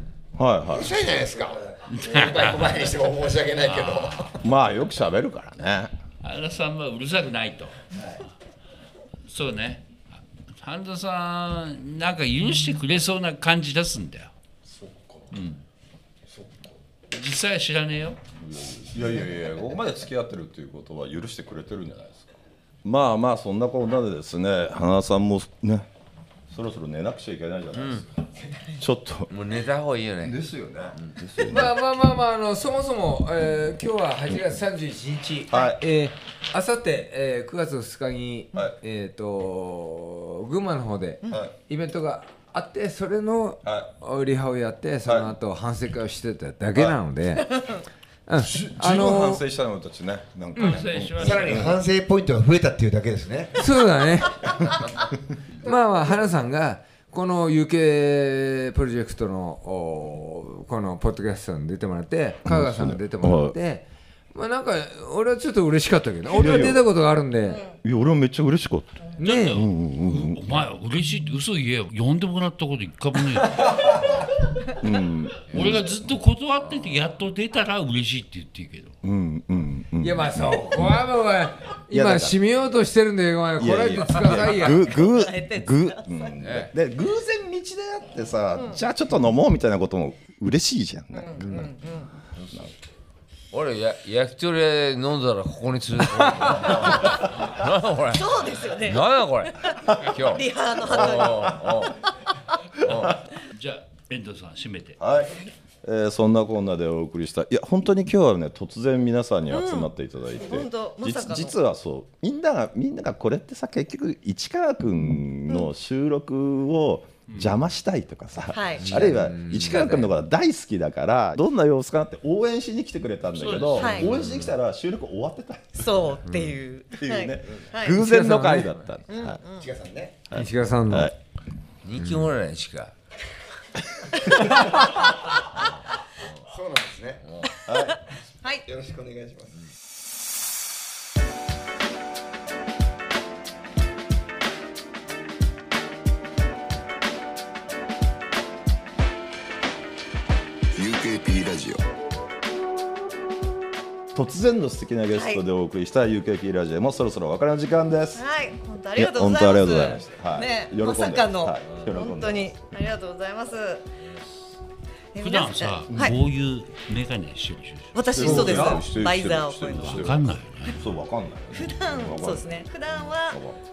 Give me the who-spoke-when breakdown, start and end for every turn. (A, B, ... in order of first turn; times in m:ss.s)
0:00.4-0:01.0 A
0:00.7-0:04.4 B
0:01.9-0:02.9 C
0:03.6-0:04.4 C
0:04.4-0:05.9 A
0:06.2-0:07.8 C
0:09.3-0:14.3 C
0:14.7-0:15.3 A
0:15.3-0:15.6 C
0:17.1-0:18.2 C
0:18.4-0:22.3 A
0:22.8-0:25.9 A
0:26.5-0:29.3 A
0:27.8-0:28.0 D
0:29.3-0:30.4 D
0:30.2-0:31.8 A
0:31.4-0:47.5 E
0:35.5-0:35.8 A
0:41.3-0:41.5 A
0:43.6-0:43.9 A
0:45.0-0:45.3 A
0:48.3-0:49.4 E
0:48.4-0:51.8 A
0:50.5-0:51.8 C
0:51.1-0:53.6 B
0:53.6-0:54.4 E
0:55.6-1:07.6 E
1:02.4-1:03.5 A
1:06.3-1:06.8 A
1:07.8-1:10.6 A
1:09.2-1:09.6 E
1:09.2-1:14.0 C
1:13.4-1:14.1 E
1:14.7-1:15.9 A
1:15.5-1:18.9 C
1:15.5-1:15.8 D
1:19.0-1:21.0 A
1:20.0-1:25.0 E
1:21.9-1:22.4 A
1:23.6-1:31.7 A
1:24.4-1:26.3 F
1:26.4-1:26.7 D
1:31.1-1:32.1 F
1:32.4-1:32.7 D
1:33.5-1:41.7 D
1:36.6-1:37.1 A
1:38.1-1:39.2 F
1:39.7-1:41.8 F
1:40.8-1:42.1 A
1:42.8-1:43.2 A
1:43.0-1:45.0 C
1:45.0-2:06.3 A
1:49.5-1:51.5 F
1:57.3-1:57.6 C
1:58.5-1:59.8 F
1:59.0-1:59.4 E
1:59.0-2:00.0 D
2:03.3-2:04.1 C
2:03.8-2:04.1 F
2:05.8-2:08.0 F
2:07.0-2:09.4 A
2:07.8-2:08.8 E
2:09.1-2:09.7 F
2:09.6-2:10.2 B
2:10.3-2:11.1 A
2:10.3-2:11.1 E
2:11.8-2:12.9 D
2:16.4-2:17.2 B
2:17.6-2:18.0 A
2:17.7-2:18.6 F
2:18.6-2:19.5 B
2:30.7-2:31.9 A
2:34.1-2:38.2 A
2:35.1-2:35.4 F
2:38.1-2:43.9 F
2:38.9-2:42.5 A
2:45.1-2:46.1 F
2:45.2-2:48.0 C
2:45.9-2:46.2 A
2:47.9-2:50.1 F
2:48.1-2:53.6 A
2:48.2-2:48.8 E
2:49.8-2:50.8 C
2:51.5-2:53.4 F